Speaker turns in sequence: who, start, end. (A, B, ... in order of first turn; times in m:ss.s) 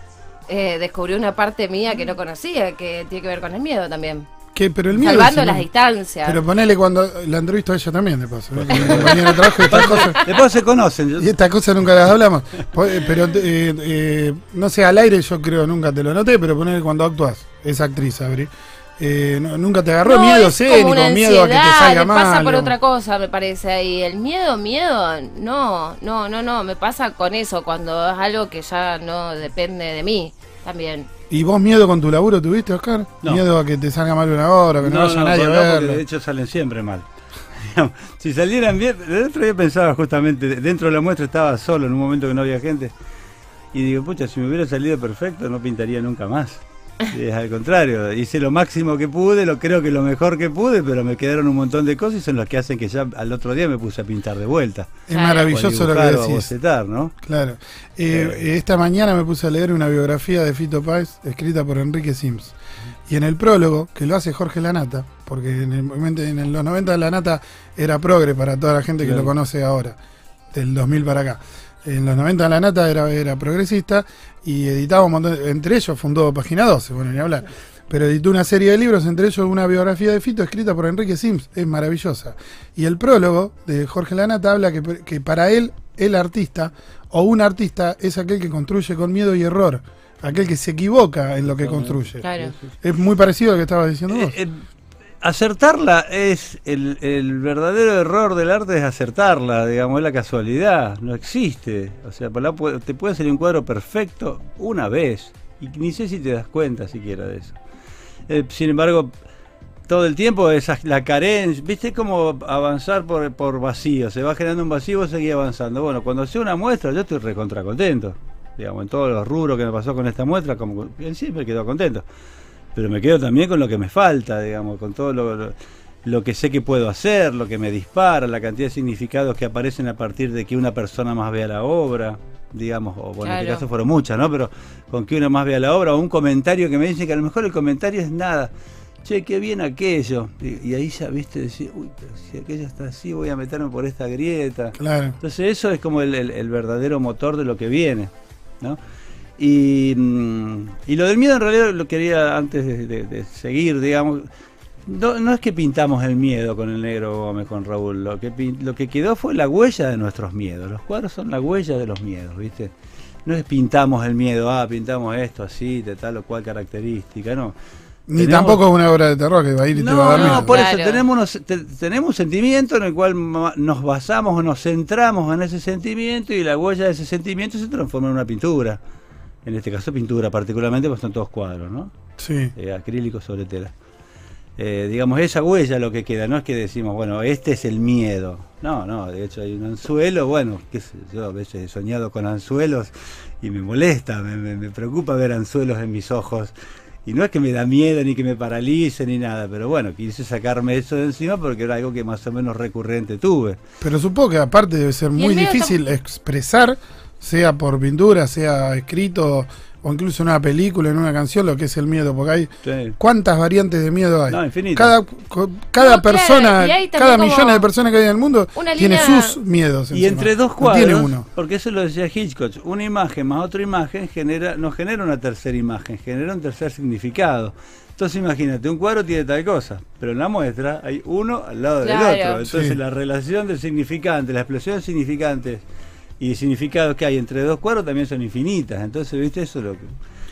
0:00.5-0:04.3 A
0:04.5-0:05.6 B
0:04.9-0:06.4 A
0:06.2-0:10.2 B
0:08.5-0:11.3 C
0:08.7-0:10.4 A
0:11.2-0:22.7 B
0:20.0-0:31.1 A
0:31.3-0:36.0 B
0:34.8-0:42.9 C
0:43.7-0:57.1 C
0:55.1-0:56.5 B
0:55.1-0:55.5 A
0:57.2-1:02.5 B
0:58.1-0:58.4 C
1:03.1-1:10.0 B
1:09.0-1:09.3 C
1:10.5-1:32.2 B
1:31.4-1:32.8 C
1:32.2-1:32.5 A
1:32.8-1:34.4 B
1:34.1-1:34.6 C
1:35.2-1:47.6 C
1:48.3-1:49.1 C
1:49.9-2:02.0 C
2:02.7-2:18.5 C
2:13.2-2:13.6 A
2:19.0-2:28.8 C
2:24.8-2:25.2 B
2:29.4-2:34.3 C
2:34.8-2:42.7 C
2:43.2-2:47.5 C
2:48.1-2:50.6 B
2:48.2-2:48.6 C
2:49.8-2:51.0 A
2:50.0-2:58.8 C
2:59.4-3:01.9 C
3:02.2-3:02.5 B
3:02.5-3:03.7 C
3:04.6-3:16.5 C
3:17.0-3:23.6 C
3:23.8-3:41.2 B
3:25.2-3:25.8 A
3:32.6-3:33.0 C
3:34.3-3:34.9 C
3:35.8-3:37.7 A
3:38.5-3:39.4 A
3:39.9-3:55.6 C
3:51.8-3:52.4 A
3:52.4-3:52.8 B
3:56.2-3:59.9 C